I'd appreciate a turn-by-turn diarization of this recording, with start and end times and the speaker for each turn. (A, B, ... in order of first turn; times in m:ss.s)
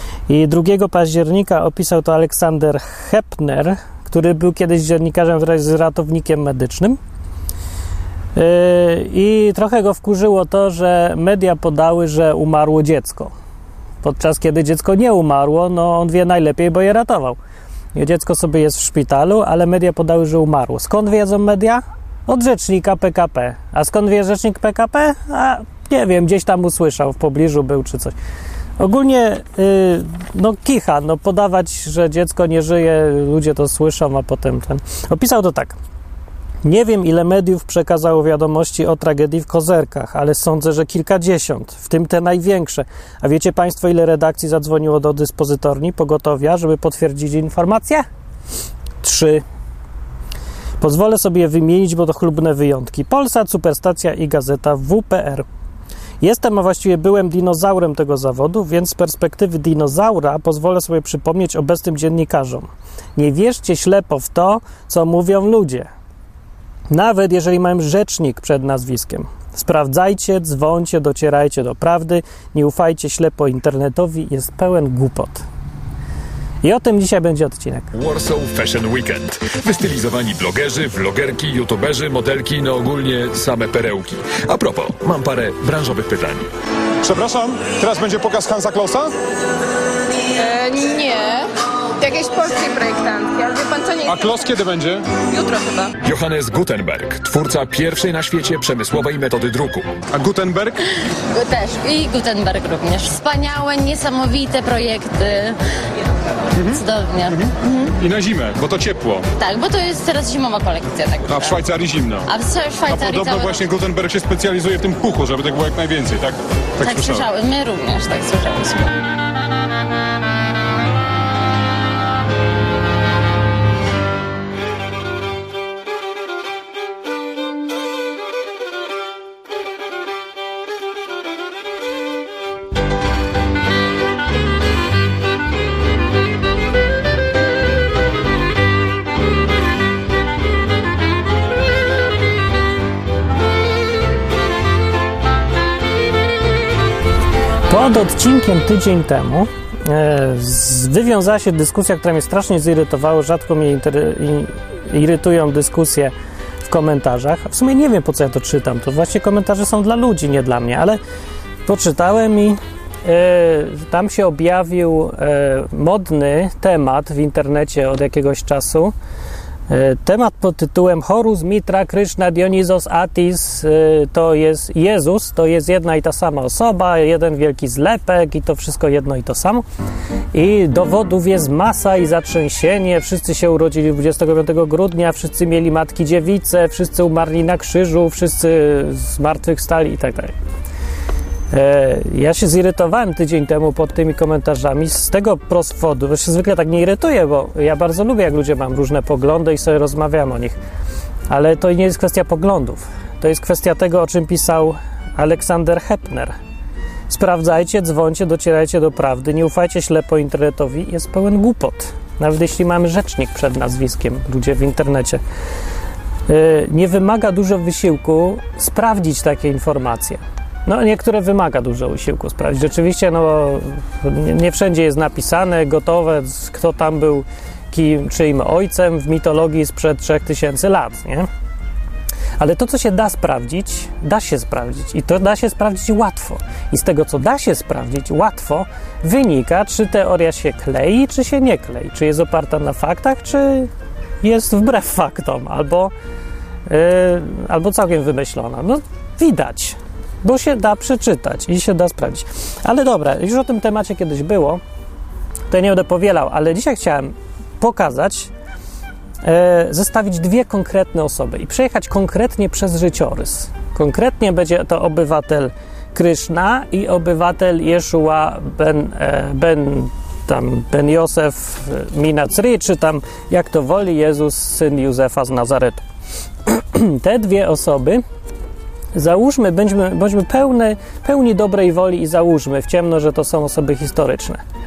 0:00.3-0:07.0 A
0:08.4-0:13.3 A
0:14.0-0:17.4 A
0:17.9-0:28.2 A
0:28.8-0:35.8 A
0:36.6-0:48.0 A
0:49.0-0:49.4 A
0:50.8-0:55.4 A
0:56.2-1:05.9 A
1:06.9-1:15.4 A
1:16.6-1:17.9 A
1:17.9-1:26.5 B
1:27.0-1:29.1 C
1:30.4-1:34.4 D
1:34.1-1:35.1 C
1:35.2-1:36.0 D
1:36.0-1:39.9 B
1:40.1-1:40.8 C
1:41.3-1:45.6 E
1:46.5-1:49.3 C
1:46.6-1:47.9 E
1:49.4-1:51.6 E
1:51.3-1:52.3 C
1:52.3-1:53.6 E
1:52.9-1:57.2 C
1:56.8-1:58.9 E
2:27.7-2:36.1 A
2:36.6-2:41.0 A
2:41.6-2:48.9 A
2:49.7-2:59.6 A
3:00.3-3:10.3 A
3:11.5-3:20.6 A
3:21.3-3:26.4 A
3:27.1-3:35.2 A
3:36.3-3:51.3 A
3:52.4-4:03.7 A
4:04.2-4:05.9 A
4:06.7-4:14.6 A
4:15.5-4:18.3 A
4:19.2-4:35.8 A
4:36.4-4:38.0 A
4:38.9-4:44.4 A